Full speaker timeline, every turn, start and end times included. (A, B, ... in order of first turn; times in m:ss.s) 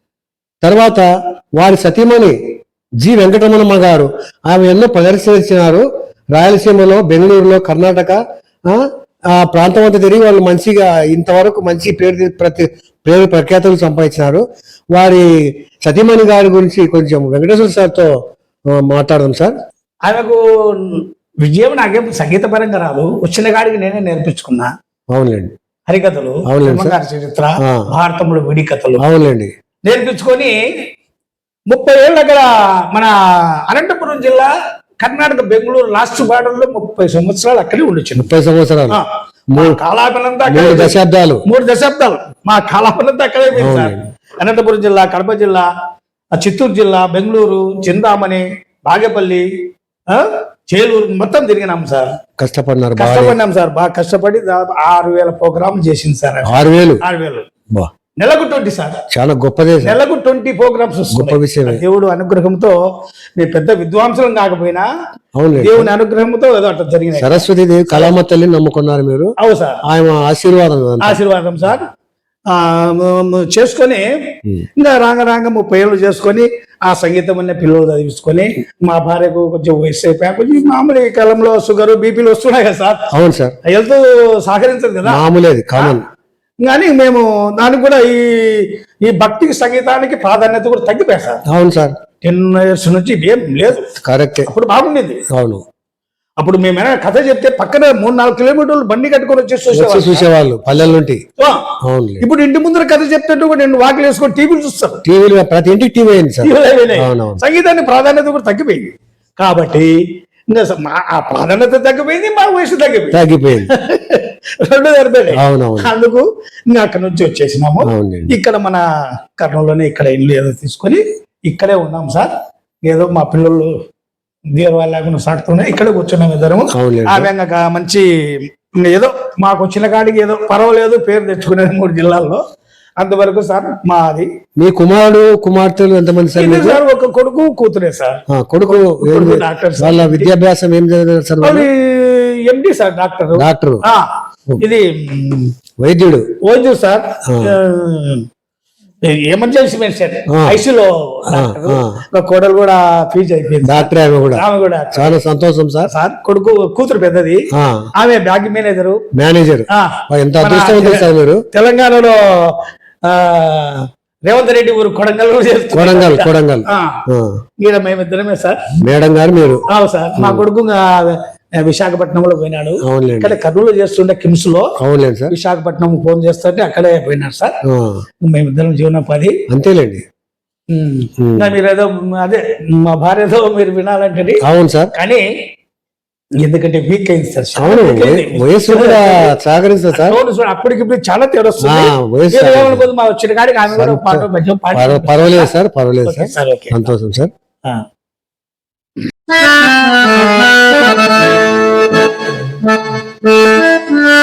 0:00.6-0:01.1 A
0:01.6-0:02.4 A
0:03.0-0:08.8 A
0:09.4-0:15.3 A
0:15.8-0:18.1 A
0:18.7-0:19.6 A
0:20.0-0:24.7 B
0:25.1-0:25.5 A
0:25.9-0:29.0 B
0:26.4-0:26.9 A
0:27.6-0:27.9 A
0:29.0-0:29.5 A
0:29.8-0:30.6 B
0:31.7-0:33.1 B
0:33.7-0:34.5 B
0:35.0-0:38.3 B
0:38.2-0:39.0 A
0:38.9-0:41.0 B
0:39.5-0:39.8 A
0:40.5-0:41.4 A
0:41.5-0:45.7 B
0:43.6-0:44.0 A
0:46.4-0:49.4 B
0:50.1-0:52.1 B
0:52.4-0:53.4 A
0:53.0-0:57.4 B
0:56.4-0:57.0 A
0:58.2-0:59.0 B
0:59.1-1:00.0 A
0:59.8-1:02.8 B
1:01.1-1:01.8 A
1:03.4-1:04.9 B
1:05.4-1:05.9 A
1:05.6-1:08.1 B
1:07.2-1:09.3 A
1:09.4-1:09.8 B
1:09.8-1:11.2 A
1:11.0-1:11.9 B
1:12.5-1:14.0 B
1:14.8-1:23.0 B
1:23.1-1:23.6 A
1:23.6-1:25.2 B
1:25.0-1:26.0 A
1:26.6-1:31.4 B
1:31.5-1:32.0 A
1:32.2-1:33.9 B
1:34.0-1:34.5 A
1:34.5-1:35.2 B
1:35.3-1:35.6 A
1:36.4-1:40.2 B
1:39.7-1:41.2 A
1:41.4-1:41.6 B
1:41.8-1:42.2 A
1:42.2-1:45.0 B
1:45.0-1:47.4 A
1:46.4-1:50.0 B
1:50.5-1:53.2 B
1:53.1-1:53.7 A
1:53.7-1:58.8 B
1:55.3-1:55.9 A
1:57.8-1:58.4 A
1:59.4-2:02.3 B
2:02.8-2:03.7 B
2:04.5-2:08.0 B
2:06.7-2:07.3 A
2:08.8-2:12.4 B
2:13.0-2:14.3 B
2:14.6-2:16.8 A
2:16.4-2:18.2 B
2:18.3-2:21.7 A
2:19.0-2:20.3 B
2:21.4-2:24.1 B
2:23.4-2:23.8 A
2:24.6-2:25.5 B
2:25.8-2:26.2 A
2:26.4-2:28.2 B
2:27.3-2:27.6 A
2:29.0-2:35.2 B
2:30.3-2:30.6 A
2:31.3-2:32.0 A
2:33.6-2:34.4 A
2:34.9-2:35.9 A
2:35.9-2:37.4 B
2:37.5-2:37.9 A
2:38.0-2:39.0 B
2:39.1-2:41.4 A
2:39.7-2:47.0 B
2:45.7-2:47.4 A
2:47.6-2:48.6 B
2:48.8-2:49.6 A
2:49.7-2:54.7 B
2:50.2-2:50.4 A
2:52.8-2:53.4 A
2:54.8-2:55.3 A
2:55.3-2:57.5 B
2:57.6-2:58.0 A
2:58.2-2:59.3 B
2:59.5-3:00.0 A
3:00.7-3:04.4 B
3:01.2-3:01.5 A
3:04.4-3:04.9 A
3:04.9-3:05.2 B
3:06.4-3:09.3 B
3:07.6-3:10.2 A
3:09.9-3:15.5 B
3:11.6-3:12.9 A
3:13.7-3:17.3 A
3:16.1-3:16.8 B